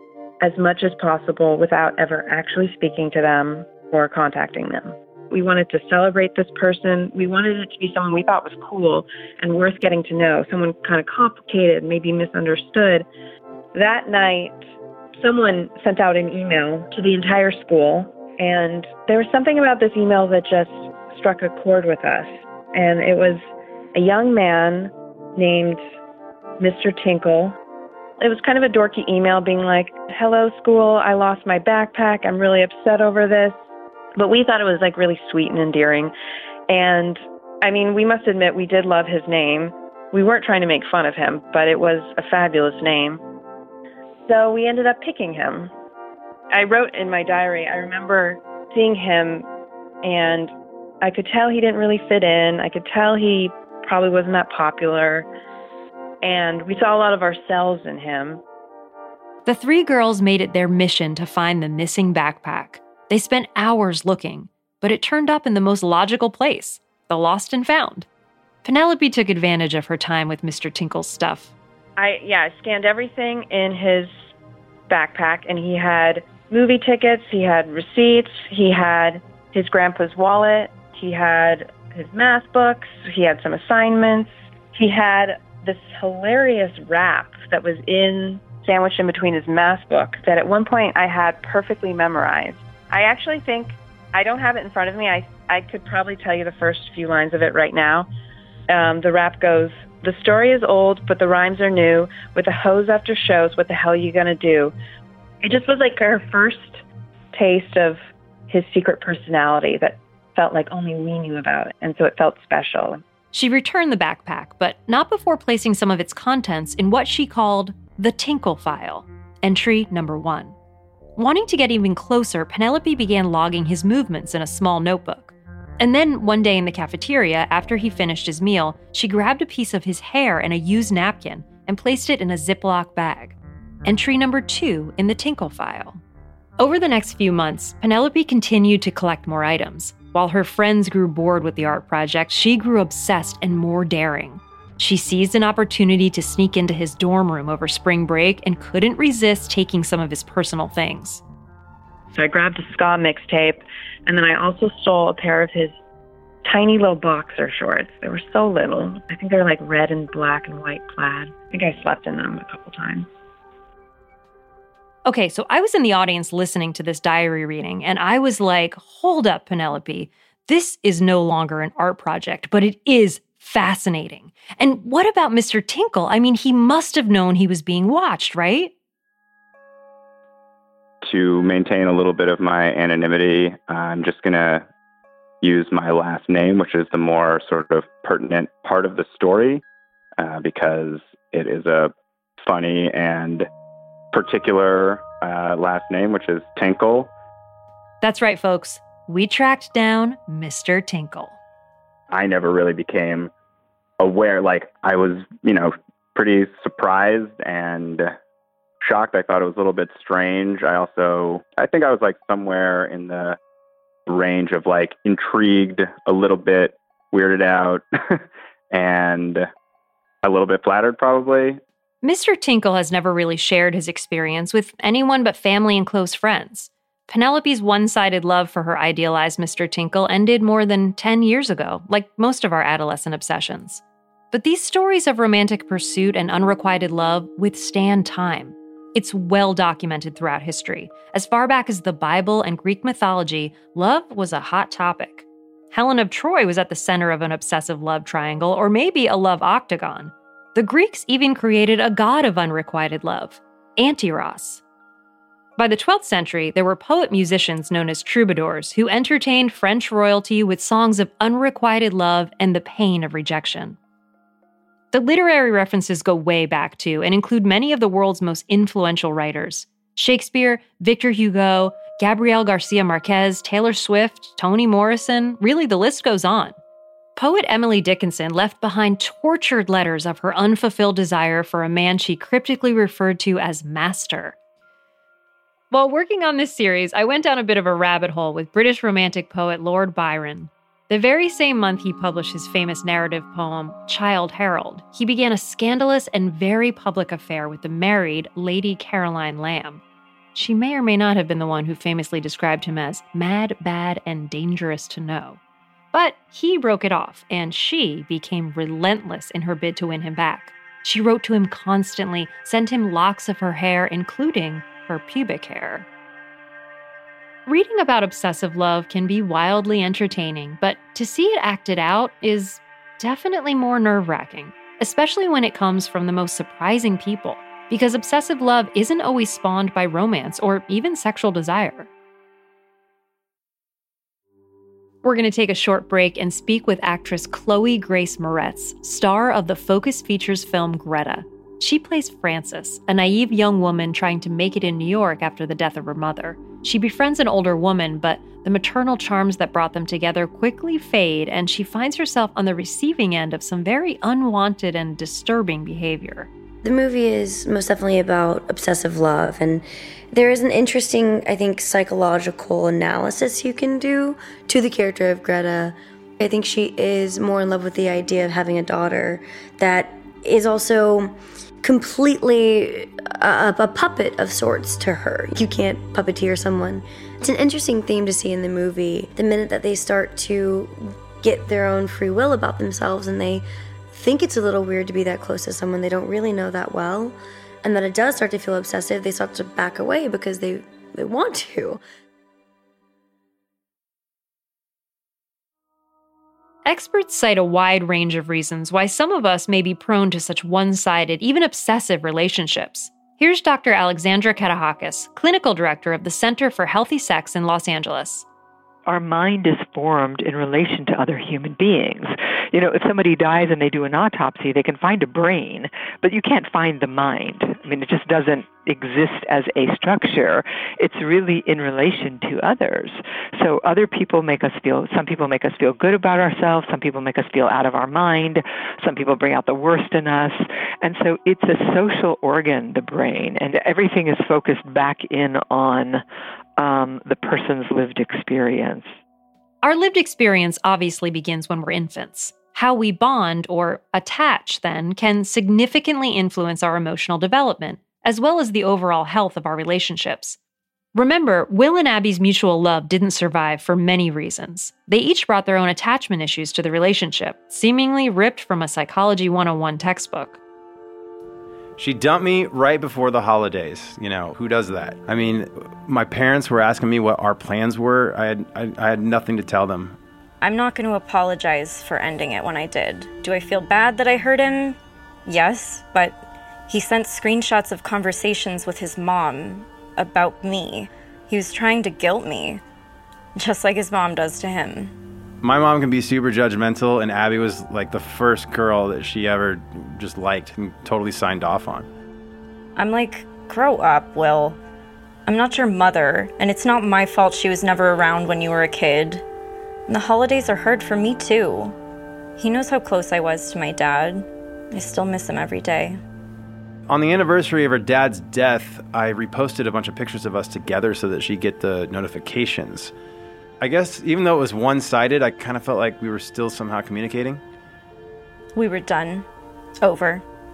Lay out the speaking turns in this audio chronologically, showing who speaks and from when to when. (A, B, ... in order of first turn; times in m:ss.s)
0:00.4-0:13.1 A
0:13.7-0:14.6 A
0:15.2-0:23.4 A
0:23.9-0:25.8 A
0:26.6-0:27.6 A
0:28.2-0:33.6 A
0:34.2-0:36.1 A
0:36.7-0:43.2 A
0:44.3-0:45.7 A
0:46.5-0:49.5 A
0:50.0-0:55.2 A
0:56.2-0:58.4 A
0:59.4-1:08.0 B
1:08.6-1:11.5 B
1:12.0-1:14.1 A
1:14.9-1:38.1 A
1:38.7-1:44.7 A
1:45.4-1:46.8 A
1:47.3-1:53.0 A
1:53.3-2:00.5 B
2:01.2-2:16.0 B
2:16.6-2:31.2 B
2:32.1-2:35.8 A
2:36.4-2:43.1 A
2:45.0-2:58.7 B
3:01.0-3:04.6 C
3:05.4-3:09.6 C
3:10.2-3:13.5 C
3:14.1-3:17.1 C
3:18.0-3:21.4 B
3:22.1-3:23.3 C
3:24.0-3:28.1 C
3:28.8-3:33.4 C
3:34.1-3:39.5 C
3:40.2-3:41.6 C
3:42.0-4:14.6 B
4:15.6-4:23.8 B
4:24.9-4:36.6 B
4:37.2-4:44.4 B
4:45.7-4:59.8 B
5:00.3-5:05.4 B
5:05.9-5:15.9 B
5:17.4-5:31.9 B
5:35.0-5:56.3 B
5:56.6-6:31.8 D
6:36.6-6:48.2 B
6:48.9-7:16.0 E
7:16.6-7:18.9 E
7:19.6-7:30.4 B
7:30.9-7:40.4 B
7:41.8-7:50.0 F
7:50.4-8:02.6 G
8:03.4-8:04.9 G
8:05.4-8:11.9 F
8:12.8-8:14.6 G
8:15.3-8:19.2 G
8:19.9-8:21.8 G
8:22.4-8:26.0 G
8:26.9-8:32.9 F
8:33.6-8:37.4 F
8:38.5-8:39.3 G
8:39.8-8:40.2 G